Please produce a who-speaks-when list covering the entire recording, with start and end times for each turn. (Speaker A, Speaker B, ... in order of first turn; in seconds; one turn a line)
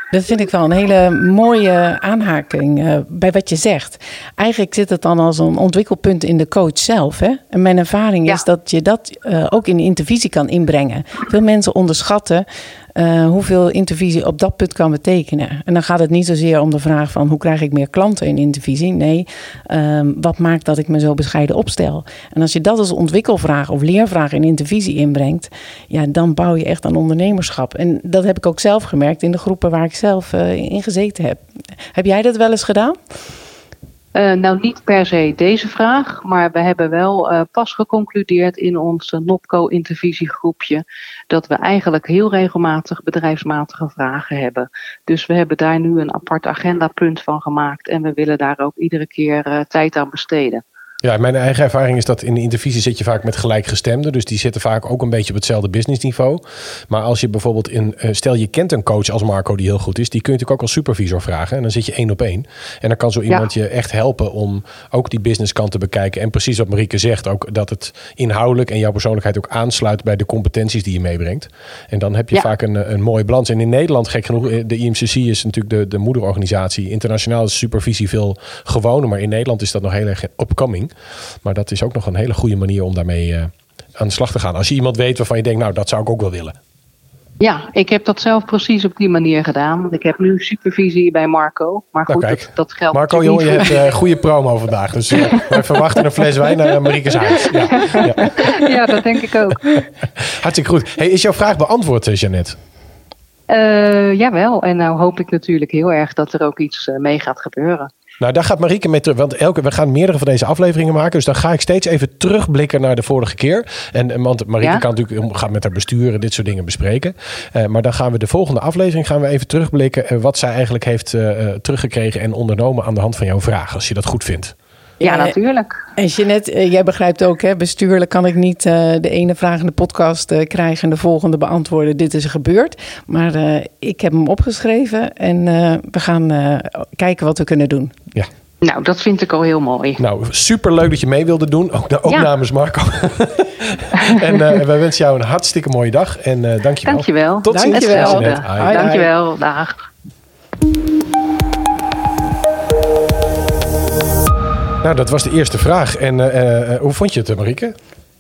Speaker A: 0.1-31.4
Speaker A: 31.9-33.0
Speaker B: 34.1-50.6
Speaker C: 51.0-86.6
Speaker B: 87.4-93.9
Speaker C: 92.1-98.5
Speaker B: 97.5-99.8
Speaker C: 100.2-102.6
Speaker B: 103.5-107.9
Speaker C: 108.2-124.5
Speaker A: 125.0-125.3
Speaker B: 125.0-125.8
Speaker A: 126.0-137.9
Speaker B: 138.6-140.0
Speaker C: 140.0-148.9
Speaker B: 144.0-144.6
Speaker B: 146.9-149.8
Speaker A: 147.5-149.1
Speaker C: 154.8-157.8